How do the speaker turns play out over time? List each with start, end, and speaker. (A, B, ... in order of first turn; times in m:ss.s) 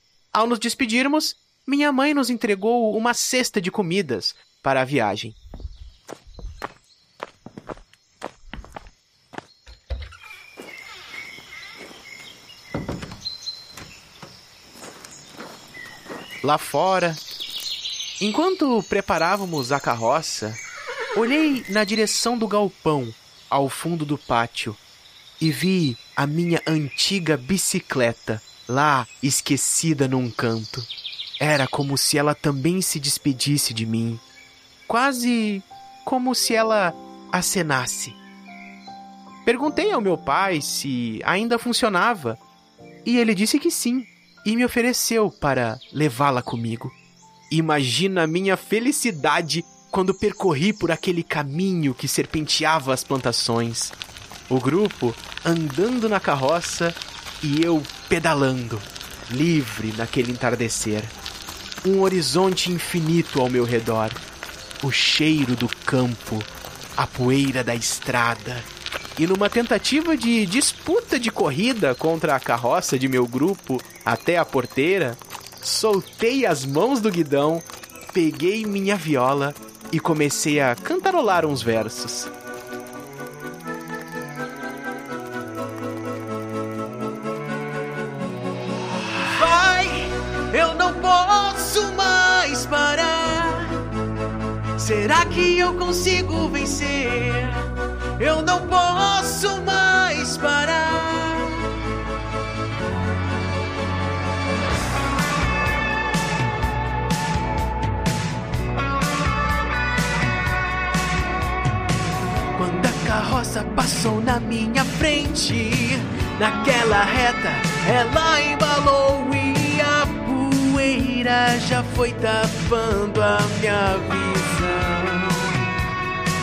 0:00.3-0:05.4 A
0:16.4-0:17.2 A
0:18.2-0:20.6 A
0:21.1-0:24.8 A
0:25.4-0:30.9 A
0:31.4-0:34.2 A
0:34.9-0:38.2 A
0:39.4-0:42.4 A
0:43.0-0:46.9 A
0:47.5-0:53.9 A
0:54.5-1:01.1 A
1:01.8-1:04.2 A
1:04.8-1:22.3 A
1:29.2-1:33.8 A
1:34.8-1:41.7 A
1:52.5-2:05.7 A